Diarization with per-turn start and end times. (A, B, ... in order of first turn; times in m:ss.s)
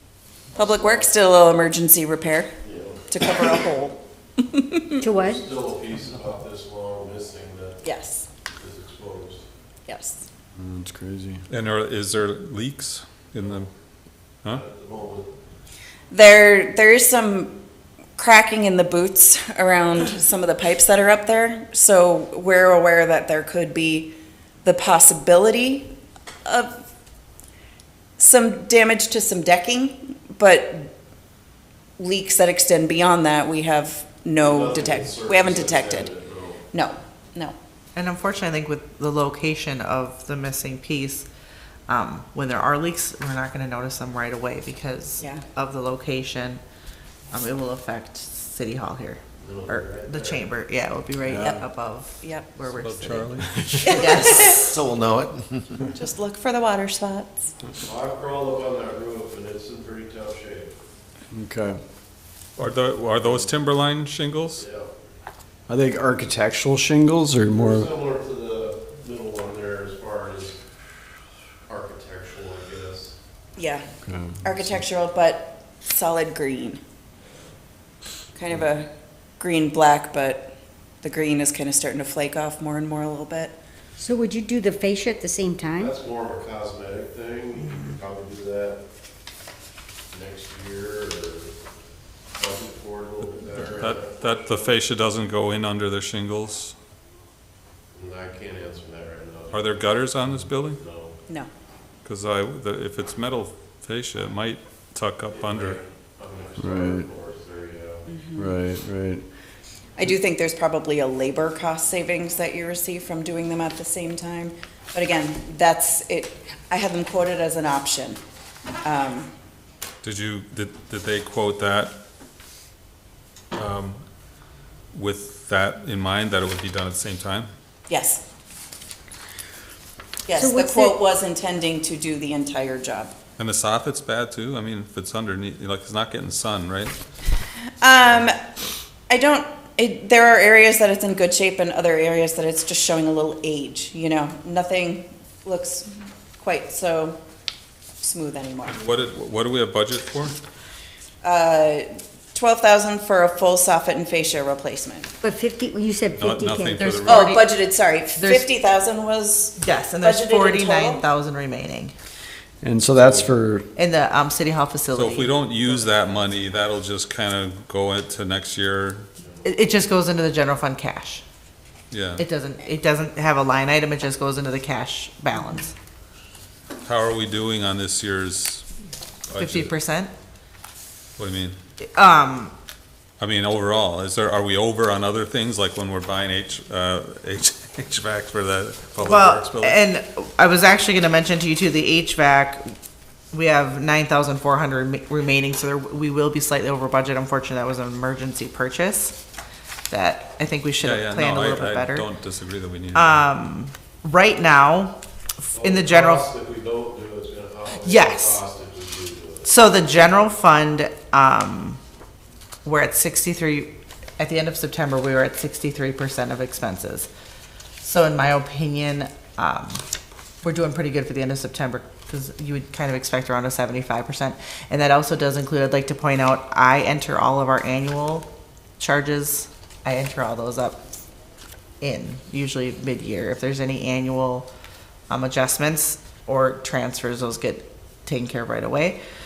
0:00.6-0:02.5 A
0:00.6-0:01.1 B
0:02.6-0:03.0 B
0:03.1-0:04.9 A
0:05.0-0:05.5 C
0:05.1-0:07.8 B
0:07.8-0:08.3 A
0:08.6-0:09.4 B
0:09.9-0:10.2 A
0:10.6-0:11.4 D
0:11.5-0:13.7 E
0:14.4-0:15.3 B
0:16.1-0:17.5 A
0:18.2-0:24.1 A
0:24.6-0:25.9 A
0:26.4-0:26.8 A
0:28.2-0:30.9 A
0:32.0-0:36.1 A
0:34.4-0:36.6 B
0:36.7-0:37.6 A
0:37.9-0:41.3 F
0:41.9-0:46.6 F
0:47.3-0:54.5 F
0:49.4-0:50.4 B
0:51.2-0:51.6 D
0:52.2-0:52.5 A
0:52.6-0:54.0 E
0:53.1-0:53.9 D
0:53.9-0:54.8 A
0:55.9-0:57.5 A
0:57.8-1:00.7 B
1:01.3-1:01.8 D
1:02.6-1:04.6 E
1:04.6-1:04.9 B
1:05.7-1:07.9 D
1:07.4-1:10.6 B
1:11.7-1:13.1 B
1:13.6-1:13.8 A
1:14.0-1:14.8 D
1:14.4-1:16.8 A
1:18.3-1:18.9 A
1:19.4-1:23.6 A
1:24.0-1:25.9 C
1:25.8-1:28.8 B
1:30.1-1:31.5 B
1:32.4-1:34.7 B
1:33.6-1:36.7 E
1:37.9-1:39.9 B
1:39.5-1:40.8 E
1:40.7-1:41.1 B
1:42.0-1:45.8 E
1:45.3-1:48.0 B
1:46.6-1:47.1 D
1:48.1-1:48.6 A
1:48.3-1:49.2 D
1:50.0-1:58.2 A
1:58.8-1:59.3 A
2:00.0-2:01.9 E
2:03.5-2:04.0 E
2:04.9-2:07.5 E
2:07.9-2:08.2 A
2:10.3-2:13.1 A
2:10.3-2:11.0 C
2:13.4-2:17.0 E
2:17.8-2:18.4 A
2:19.1-2:27.2 A
2:28.0-2:28.8 A
2:28.7-2:30.4 E
2:31.2-2:35.1 A
2:35.2-2:36.9 C
2:36.2-2:37.3 E
2:36.8-2:37.6 F
2:37.0-2:41.0 A
2:38.2-2:38.5 F
2:39.6-2:41.9 F
2:42.6-2:43.6 D
2:43.8-2:45.4 F
2:45.0-2:49.1 E
2:49.4-2:51.2 F
2:51.9-2:52.2 E
2:52.2-2:55.8 F
2:56.8-2:58.6 E
2:59.3-2:59.7 E
2:59.4-3:00.1 F
3:01.2-3:01.6 E
3:01.9-3:02.5 F
3:03.2-3:09.8 E
3:09.0-3:12.7 F
3:13.3-3:19.2 F
3:19.9-3:22.1 F
3:20.8-3:23.2 E
3:22.9-3:26.3 F
3:25.6-3:29.6 B
3:27.8-3:28.4 F
3:29.4-3:31.8 F
3:32.6-3:37.1 F
3:37.8-3:39.8 F
3:40.4-3:48.3 F
3:48.8-3:50.8 F
3:51.8-3:54.5 F
3:55.1-3:59.0 F